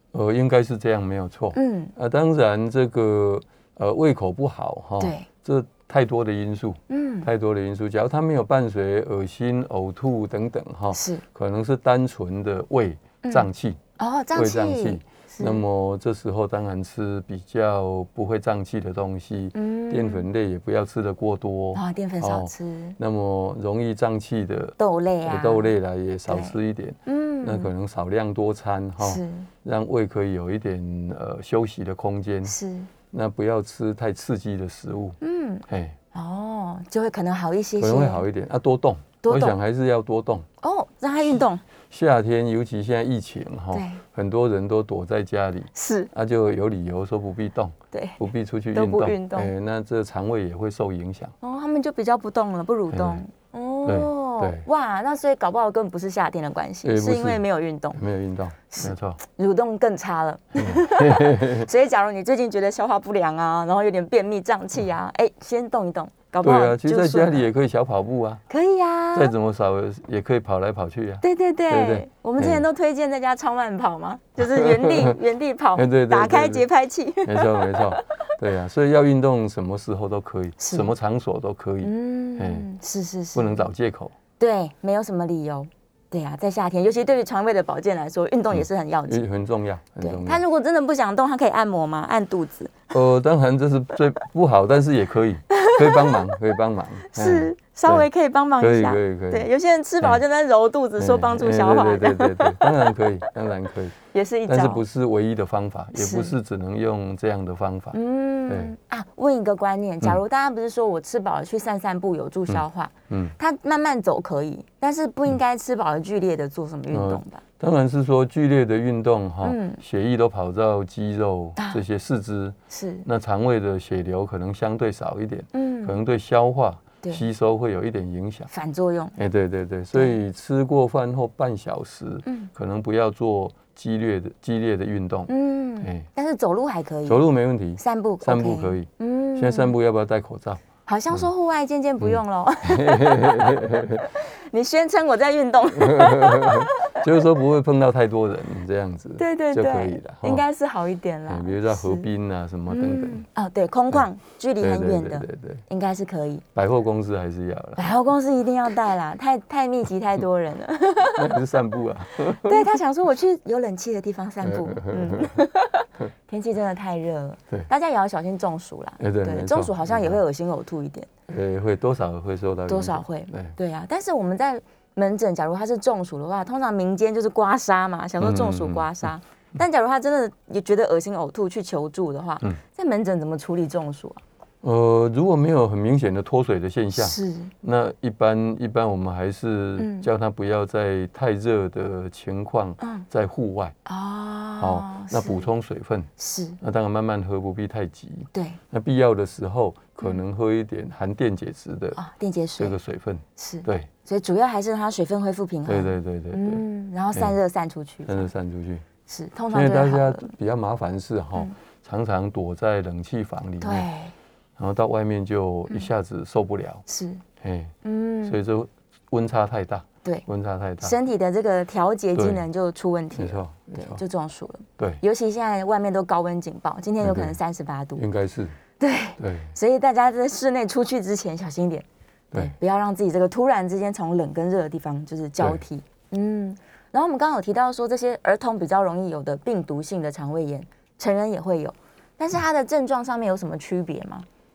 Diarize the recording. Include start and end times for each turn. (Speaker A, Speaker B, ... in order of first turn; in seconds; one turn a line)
Speaker A: 0.1-13.8
Speaker B: 1.5-1.9
Speaker B: 5.0-5.3
Speaker B: 6.9-7.3
Speaker B: 10.9-11.2
Speaker B: 14.0-15.6
Speaker A: 14.3-32.5
Speaker B: 19.5-20.2
Speaker B: 21.7-23.0
Speaker B: 24.8-25.7
Speaker B: 26.3-27.7
Speaker B: 29.0-29.5
Speaker B: 32.5-32.9
Speaker A: 33.1-36.0
Speaker B: 35.2-38.2
Speaker A: 37.8-40.4
Speaker B: 39.2-39.5
Speaker B: 40.6-41.6
Speaker A: 41.9-51.3
Speaker B: 43.7-44.0
Speaker B: 45.7-46.1
Speaker B: 47.9-48.2
Speaker B: 48.7-49.5
Speaker B: 51.4-58.0
Speaker A: 52.9-53.2
Speaker A: 53.8-54.6
Speaker A: 56.8-59.2
Speaker B: 58.7-67.5
Speaker A: 60.6-61.7
Speaker A: 66.4-68.4
Speaker B: 68.5-69.3
Speaker A: 69.1-72.7
Speaker B: 71.2-78.1
Speaker A: 74.4-75.2
Speaker A: 75.7-76.7
Speaker A: 77.2-82.7
Speaker B: 80.6-80.9
Speaker B: 81.8-83.7
Speaker A: 83.3-84.1
Speaker B: 84.4-89.2
Speaker A: 88.5-90.4
Speaker B: 90.0-92.9
Speaker A: 92.9-98.1
Speaker B: 95.5-96.4
Speaker B: 97.1-103.3
Speaker A: 98.6-99.5
Speaker A: 101.0-103.9
Speaker B: 104.1-104.8
Speaker A: 104.5-108.7
Speaker B: 106.0-106.3
Speaker B: 107.9-117.4
Speaker A: 112.5-113.3
Speaker A: 116.9-128.5
Speaker B: 119.4-119.8
Speaker B: 121.6-121.8
Speaker B: 122.7-123.0
Speaker B: 125.5-126.0
Speaker B: 128.5-129.1
Speaker A: 129.2-135.3
Speaker B: 132.2-132.5
Speaker B: 135.3-137.2
Speaker A: 135.8-136.1
Speaker A: 137.1-141.3
Speaker B: 137.8-139.7
Speaker B: 140.9-147.0
Speaker A: 142.0-144.1
Speaker A: 145.8-150.4
Speaker B: 149.2-152.1
Speaker A: 151.3-153.2
Speaker B: 152.7-156.4
Speaker A: 154.6-155.6
Speaker A: 156.5-157.9
Speaker B: 157.8-161.4
Speaker A: 161.1-162.7
Speaker B: 162.2-171.1
Speaker A: 164.4-165.4
Speaker A: 169.0-170.2
Speaker A: 171.3-173.5
Speaker B: 172.7-184.2
Speaker A: 178.2-179.1
Speaker A: 184.6-193.7
Speaker B: 186.9-187.5
Speaker B: 189.8-190.1
Speaker B: 192.8-193.0
Speaker B: 193.8-195.5
Speaker A: 194.6-196.1
Speaker B: 196.2-196.6
Speaker A: 196.6-202.0
Speaker B: 198.3-198.6
Speaker B: 201.9-202.8
Speaker A: 202.6-203.9
Speaker B: 203.4-208.3
Speaker A: 205.7-206.6
Speaker A: 208.1-208.8
Speaker B: 209.1-210.3
Speaker A: 209.5-213.9
Speaker B: 213.6-214.1
Speaker A: 214.6-216.8
Speaker B: 216.9-217.2
Speaker A: 217.4-220.9
Speaker B: 217.8-218.4
Speaker B: 220.8-228.1
Speaker A: 222.1-222.4
Speaker A: 223.2-224.0
Speaker A: 224.8-225.0
Speaker A: 227.0-227.3
Speaker A: 228.0-228.5
Speaker B: 228.8-244.2
Speaker A: 229.2-229.5